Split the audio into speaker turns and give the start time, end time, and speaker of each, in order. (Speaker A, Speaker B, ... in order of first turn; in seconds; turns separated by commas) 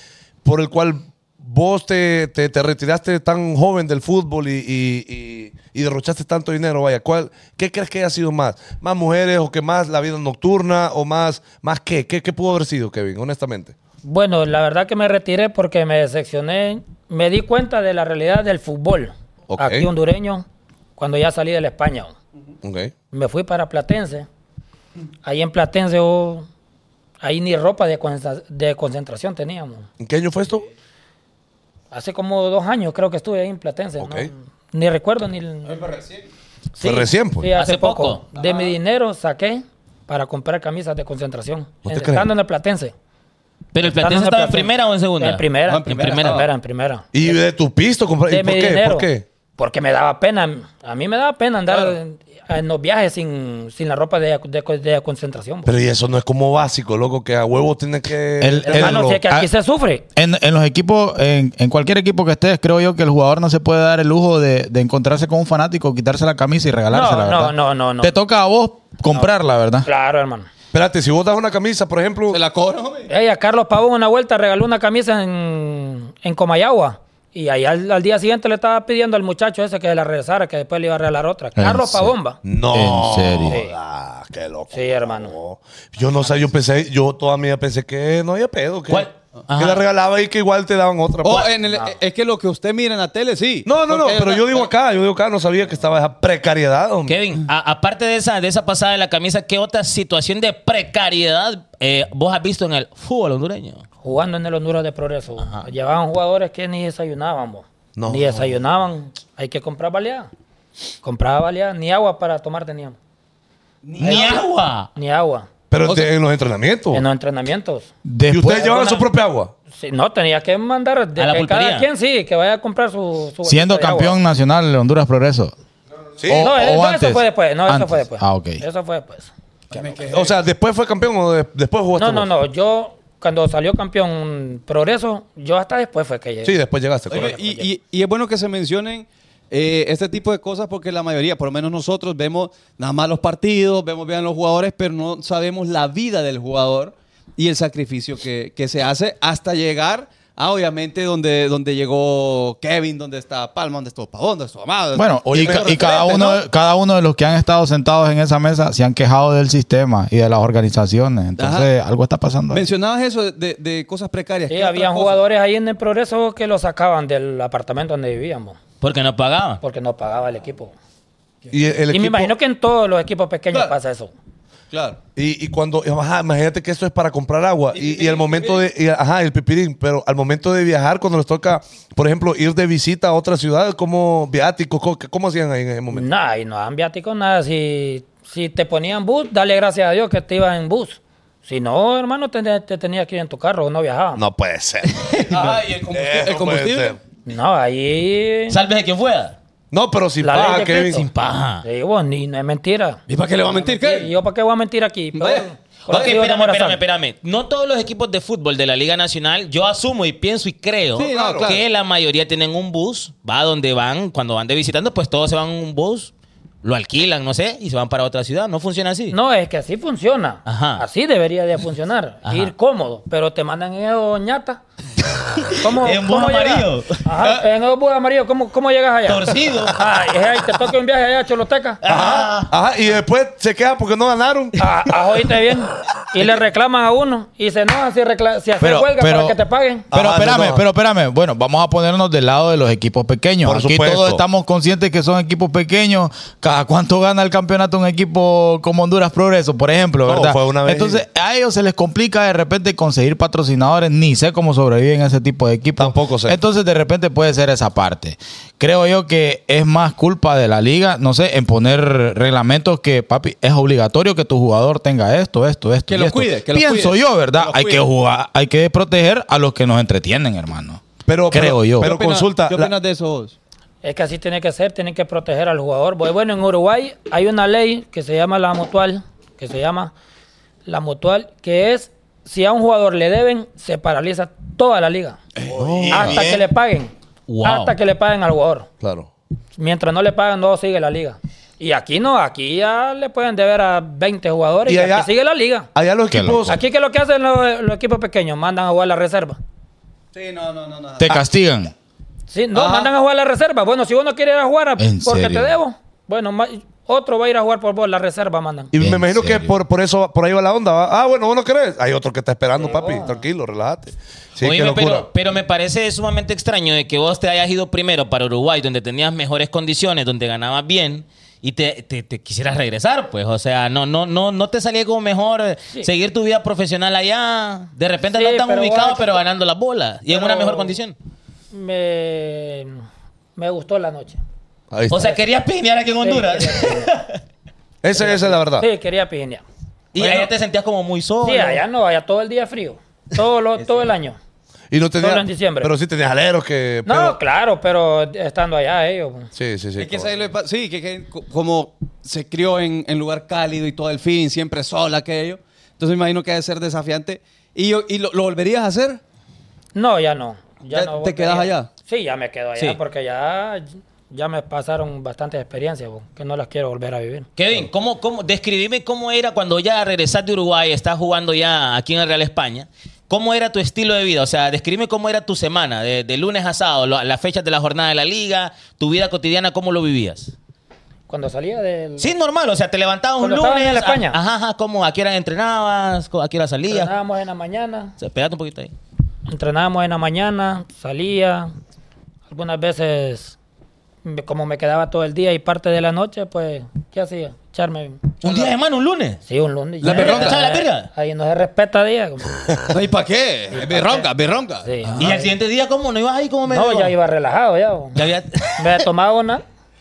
Speaker A: 0.4-13.7, Speaker B: 14.0-20.4, Speaker A: 19.5-19.9, Speaker B: 21.0-22.1, Speaker A: 22.6-22.9, Speaker B: 23.1-24.3, Speaker B: 25.2-26.5, Speaker B: 27.2-29.9, Speaker A: 30.0-30.7, Speaker B: 31.9-35.9, Speaker A: 34.0-34.3, Speaker C: 35.6-36.2, Speaker B: 36.8-42.9, Speaker A: 36.8-37.5, Speaker D: 37.5-38.2, Speaker C: 38.4-38.7, Speaker A: 41.8-42.3, Speaker D: 43.7-46.4, Speaker B: 43.8-47.4, Speaker C: 45.7-46.5, Speaker A: 47.1-49.2, Speaker B: 48.3-55.7, Speaker C: 51.7-51.9, Speaker A: 55.6-59.1, Speaker E: 58.4-59.5, Speaker B: 58.6-60.0, Speaker E: 60.1-69.9, Speaker B: 66.9-68.1, Speaker B: 69.8-70.5, Speaker A: 70.7-72.4, Speaker C: 72.3-73.1, Speaker B: 73.1-82.4, Speaker E: 81.5-82.1, Speaker A: 82.4-91.5, Speaker E: 82.7-83.6, Speaker B: 83.5-83.7, Speaker B: 84.7-85.3, Speaker D: 88.9-89.8, Speaker C: 91.2-94.7, Speaker A: 93.6-97.2, Speaker D: 97.1-103.8, Speaker B: 104.0-110.3, Speaker D: 105.4-105.7, Speaker A: 108.0-108.5, Speaker B: 111.0-113.0, Speaker C: 113.8-114.4, Speaker D: 114.0-114.9, Speaker B: 114.0-114.4, Speaker B: 114.9-115.5, Speaker A: 115.7-117.0, Speaker C: 115.8-116.1, Speaker B: 116.9-117.9, Speaker E: 118.0-118.8, Speaker A: 118.3-119.5, Speaker B: 118.6-119.0, Speaker B: 119.8-124.2, Speaker D: 121.2-121.9, Speaker E: 123.4-125.5, Speaker A: 126.2-126.6, Speaker E: 126.3-128.6, Speaker B: 126.3-129.3, Speaker C: 129.7-130.4, Speaker A: 130.1-132.3, Speaker B: 131.9-136.6, Speaker A: 136.4-137.3, Speaker C: 137.1-156.4, Speaker B: 137.1-137.7, Speaker E: 154.9-162.7, Speaker A: 155.3-156.2, Speaker C: 161.4-161.7, Speaker C: 162.5-165.2, Speaker B: 164.5-168.6, Speaker D: 168.8-169.6, Speaker B: 169.6-170.7, Speaker A: 171.5-172.3, Speaker B: 171.9-174.1, Speaker C: 174.7-175.0, Speaker A: 175.2-186.1, Speaker C: 177.7-178.7, Speaker B: 185.9-194.2, Speaker A: 194.2-197.0, Speaker C: 195.2-197.0, Speaker B: 197.2-198.6, Speaker D: 198.5-199.3, Speaker A: 199.7-201.1, Speaker B: 200.2-201.1, Speaker D: 200.8-201.6, Speaker B: 201.6-206.8, Speaker C: 203.1-204.1, Speaker C: 205.1-205.5, Speaker D: 205.9-216.1, Speaker C: 210.9-211.6, Speaker A: 211.2-211.4, Speaker D: 216.6-219.2, Speaker B: 219.1-224.6, Speaker D: 220.4-220.8, Speaker D: 222.2-222.5, Speaker D: 225.4-227.0, Speaker B: 225.5-231.8, Speaker D: 229.1-229.9, Speaker D: 231.8-232.5, Speaker A: 231.8-235.3, Speaker B: 234.6-239.9, Speaker E: 238.6-239.4, Speaker E: 239.9-271.9, Speaker A: 239.9-240.6, Speaker A: 243.4-244.2, Speaker A: 250.1-251.0, Speaker A: 255.8-256.4, Speaker C: 265.9-267.9, Speaker A: 271.1-272.7, Speaker C: 271.8-273.4, Speaker B: 273.8-279.9, Speaker B: 280.6-285.2, Speaker C: 285.4-286.1, Speaker A: 285.5-286.4, Speaker B: 285.9-286.9, Speaker D: 287.3-287.7, Speaker B: 287.4-288.7, Speaker A: 288.8-289.1, Speaker B: 289.6-295.7, Speaker A: 294.6-295.1, Speaker A: 295.7-296.6, Speaker E: 296.1-296.6, Speaker B: 296.4-299.4, Speaker C: 300.1-301.2, Speaker E: 301.0-301.7, Speaker B: 302.3-308.7, Speaker A: 302.6-302.8, Speaker E: 304.8-305.5, Speaker A: 308.7-315.1, Speaker E: 308.8-309.6, Speaker B: 312.6-313.2, Speaker D: 314.4-330.9, Speaker B: 328.1-329.1, Speaker B: 330.1-330.8, Speaker B: 331.5-332.8, Speaker B: 333.4-334.2, Speaker A: 334.7-335.1, Speaker D: 334.9-337.2, Speaker B: 336.0-336.9, Speaker A: 337.8-338.7, Speaker B: 337.9-339.4, Speaker D: 339.9-341.6, Speaker B: 340.0-340.3, Speaker B: 341.2-344.2, Speaker A: 344.7-347.2, Speaker B: 345.0-345.7, Speaker B: 346.9-349.3, Speaker A: 349.3-350.1, Speaker C: 349.8-359.0, Speaker B: 359.7-367.3, Speaker C: 360.7-361.7, Speaker D: 367.4-380.3, Speaker B: 381.1-382.1, Speaker D: 382.0-386.9, Speaker B: 383.2-384.2, Speaker B: 386.7-387.9, Speaker D: 388.0-388.7, Speaker B: 389.3-391.5, Speaker B: 392.3-393.3, Speaker B: 394.0-398.1, Speaker D: 398.2-399.2, Speaker C: 398.2-398.5, Speaker B: 399.2-402.3, Speaker C: 399.8-400.4, Speaker D: 399.8-400.9, Speaker C: 402.7-405.1, Speaker B: 403.5-404.1, Speaker B: 404.6-405.3, Speaker D: 405.0-406.9, Speaker B: 406.5-408.0, Speaker D: 407.9-408.9, Speaker B: 408.6-409.4